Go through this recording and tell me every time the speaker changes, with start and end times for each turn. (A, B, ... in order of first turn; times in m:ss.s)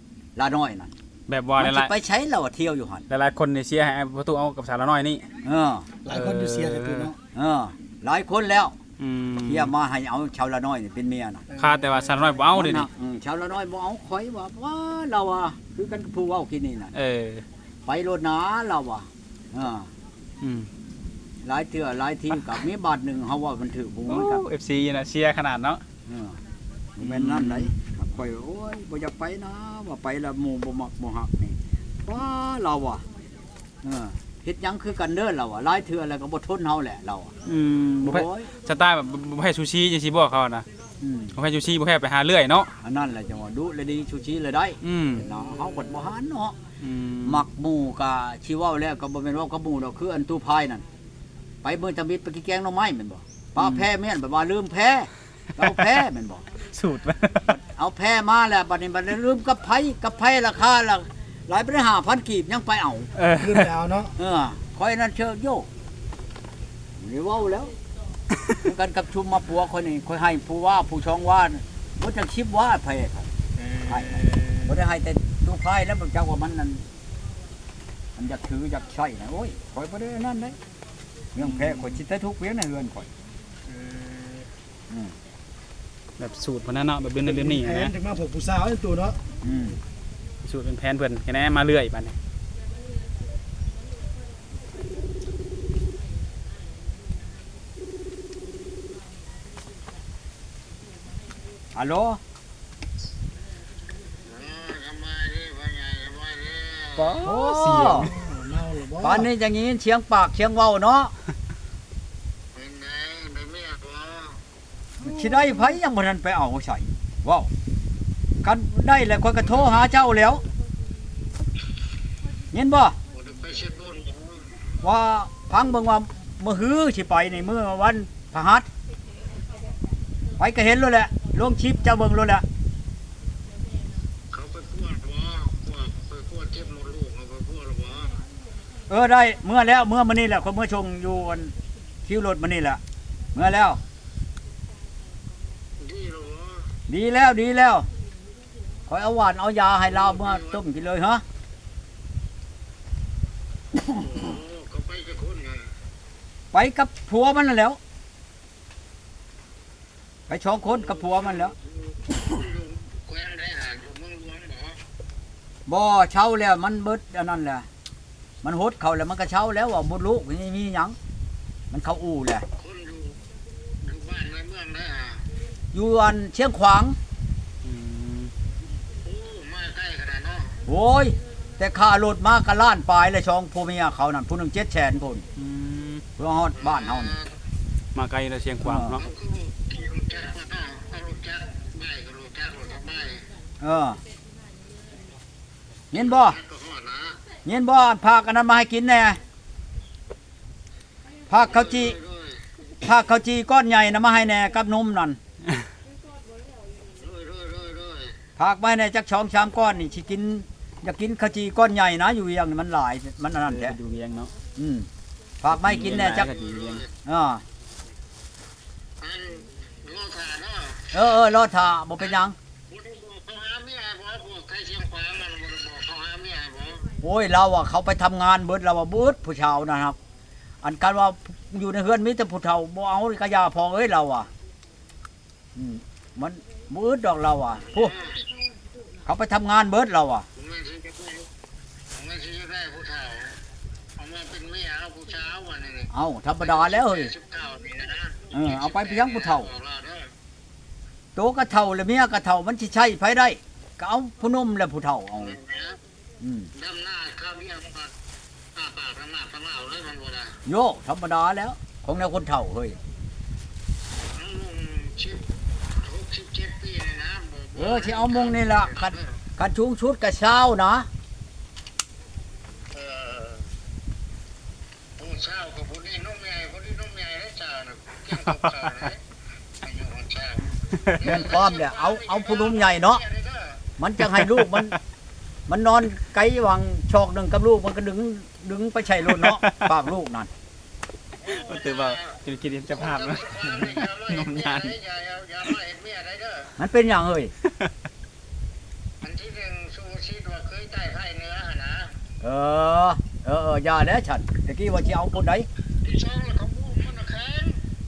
0:00.4-0:00.9 A
0:01.3-0:01.9 B
0:01.6-0:03.0 A
0:03.1-0:05.3 B
0:05.4-0:06.0 A
0:06.0-0:07.2 C
0:06.1-0:07.1 B
0:07.3-0:08.8 A
0:09.0-0:09.7 B
0:09.4-0:11.5 A
0:11.6-0:12.9 B
0:11.6-0:12.3 C
0:12.5-0:16.9 A
0:16.9-0:17.4 B
0:17.8-0:19.9 A
0:20.4-0:20.7 B
0:21.4-0:24.4 A
0:24.1-0:25.8 B
0:26.0-0:26.4 A
0:27.0-0:33.0 A
0:27.0-0:27.7 B
0:33.8-0:37.3 A
0:37.4-0:40.6 B
0:38.0-0:38.5 A
0:41.0-0:41.3 A
0:41.3-0:42.7 B
0:42.8-0:46.6 A
0:44.8-0:45.3 B
0:46.8-0:47.4 B
0:47.2-0:50.8 A
0:51.6-0:56.4 A
0:53.6-0:53.8 B
0:56.7-0:57.5 B
0:57.5-1:03.1 A
1:03.1-1:03.7 B
1:03.4-1:04.1 C
1:04.2-1:05.7 A
1:07.0-1:07.7 A
1:08.6-1:13.3 A
1:13.6-1:14.6 C
1:13.8-1:16.8 A
1:18.2-1:20.6 A
1:21.3-1:23.1 A
1:21.4-1:21.9 B
1:23.7-1:24.5 C
1:26.2-1:27.9 B
1:27.2-1:29.2 C
1:29.4-1:29.8 A
1:30.4-1:32.2 B
1:41.7-1:42.2 A
1:44.2-1:46.9 D
1:46.9-1:48.3 B
1:47.2-1:48.2 A
1:47.9-1:49.3 C
1:49.0-1:51.1 A
1:52.6-1:54.3 D
1:55.0-1:57.5 A
1:58.4-2:00.4 A
2:02.5-2:03.0 A
2:03.2-2:04.5 D
2:04.8-2:08.7 A
2:10.4-2:12.4 A
2:14.3-2:18.2 D
2:18.9-2:21.5 A
2:22.0-2:22.8 A
2:23.3-2:23.8 A
2:25.8-2:26.5 D
2:26.9-2:27.9 A
2:28.9-2:31.2 A
2:34.1-2:35.6 D
2:36.5-2:37.8 A
2:40.3-2:41.5 A
2:42.0-2:44.7 D
2:45.7-2:47.7 A
2:48.4-2:51.0 A
2:51.7-2:52.4 A
2:52.6-2:53.2 D
2:53.8-2:55.2 D
2:55.7-2:57.0 A
2:57.6-2:58.3 B
2:59.0-3:00.5 D
3:00.6-3:05.2 A
3:05.3-3:06.0 B
3:06.2-3:07.2 A
3:07.9-3:09.1 B
3:08.6-3:09.0 A
3:09.2-3:13.2 D
3:13.6-3:14.0 A
3:15.9-3:16.4 A
3:16.4-3:17.2 D
3:17.4-3:19.2 A
3:21.3-3:22.0 A
3:21.6-3:22.4 D
3:22.8-3:25.2 A
3:26.9-3:28.1 D
3:28.4-3:33.8 A
3:33.4-3:34.3 B
3:34.6-3:34.9 A
3:35.4-3:36.3 A
3:35.5-3:36.9 B
3:37.0-3:37.4 A
3:39.0-3:40.8 D
3:40.9-3:42.3 A
3:42.7-3:46.8 D
3:47.0-3:50.0 A
3:50.6-3:54.3 A
3:55.5-3:58.0 A
3:59.0-4:00.2 A
4:00.4-4:01.2 D
4:02.0-4:03.3 D
4:04.0-4:05.8 D
4:05.9-4:07.1 A
4:07.1-4:10.1 D
4:08.3-4:09.6 A
4:11.2-4:15.4 A
4:15.4-4:15.8 D
4:16.2-4:16.5 A
4:16.6-4:17.9 D
4:18.6-4:20.3 D
4:20.4-4:22.8 A
4:24.2-4:25.2 D
4:25.8-4:28.1 D
4:27.5-4:30.9 A
4:32.8-4:33.4 D
4:35.0-4:38.9 D
4:38.0-4:39.0 B
4:39.6-4:40.4 D
4:40.7-4:41.1 B
4:40.9-4:43.1 A
4:42.2-4:42.5 D
4:43.1-4:43.5 D
4:43.8-4:44.8 A
4:44.0-4:44.8 B
4:45.5-4:50.3 A
4:49.1-4:49.6 B
4:51.2-4:54.8 B
4:53.3-4:54.0 D
4:54.7-4:56.5 D
4:56.6-4:57.3 A
4:59.0-5:01.9 D
5:02.2-5:05.5 A
5:05.8-5:07.6 D